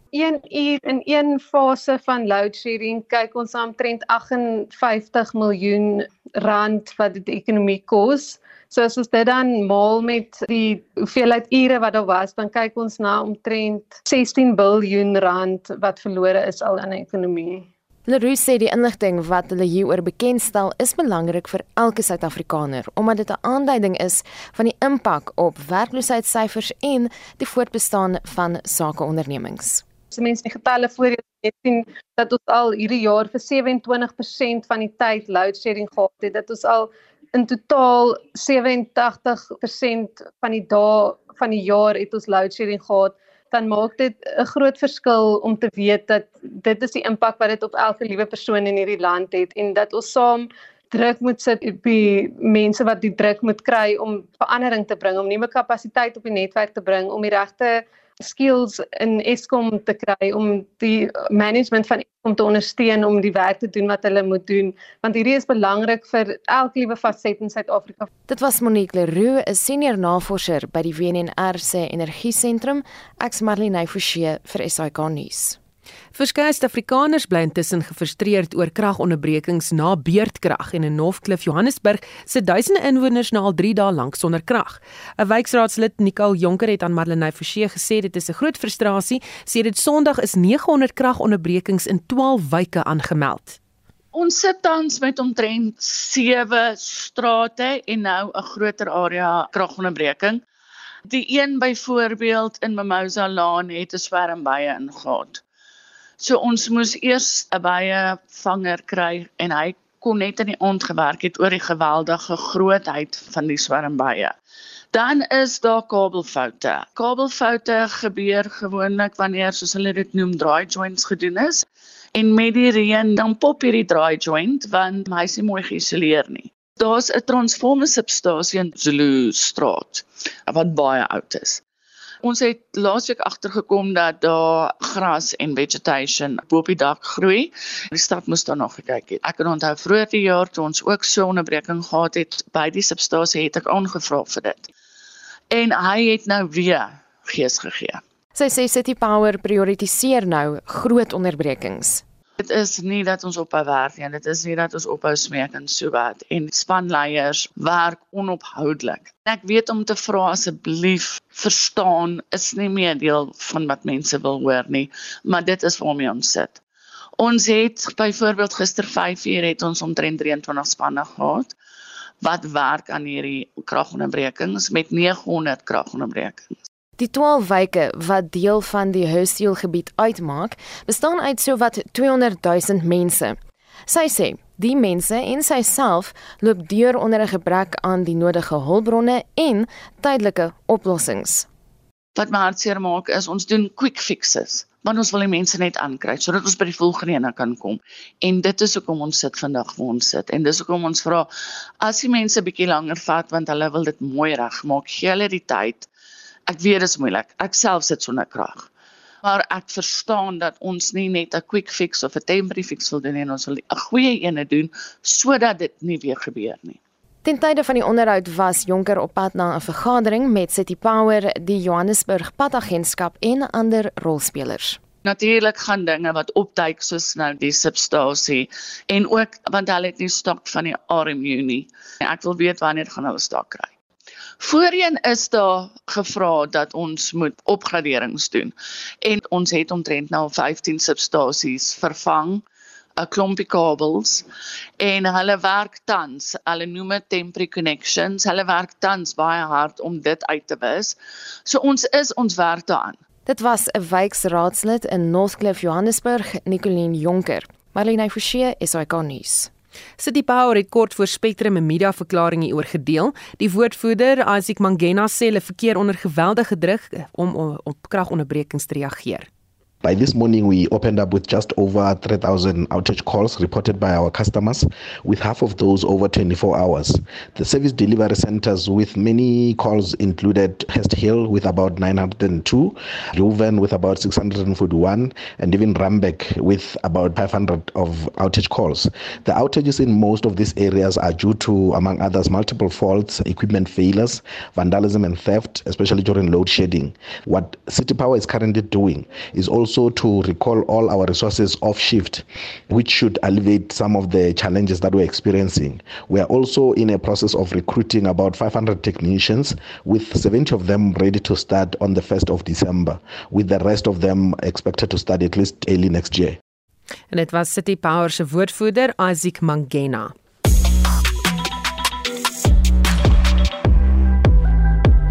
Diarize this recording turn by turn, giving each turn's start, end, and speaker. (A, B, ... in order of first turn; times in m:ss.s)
0:00.1-0:17.7 A
0:18.1-0:29.8 B
0:30.1-1:08.1 A
1:08.3-1:15.6 B
1:16.1-1:33.6 C
1:34.1-1:40.4 D
1:41.1-1:45.4 D
1:46.2-1:54.4 D
1:54.9-2:11.6 D
2:12.2-2:24.7 D
2:25.5-2:28.0 D
2:28.4-2:32.0 B
2:32.4-2:46.6 D
2:47.2-2:51.5 D
2:52.2-2:56.6 D
2:57.0-3:11.5 B
3:12.2-3:25.9 D
3:26.5-3:28.7 D
3:29.2-3:36.8 D
3:37.2-3:44.8 B
3:45.0-3:53.7 D
3:54.4-4:02.4 D
4:03.0-4:04.3 D
4:04.8-4:13.0 D
4:13.3-4:19.5 B
4:20.0-4:29.3 C
4:29.8-5:16.4 E
5:17.1-5:20.1 C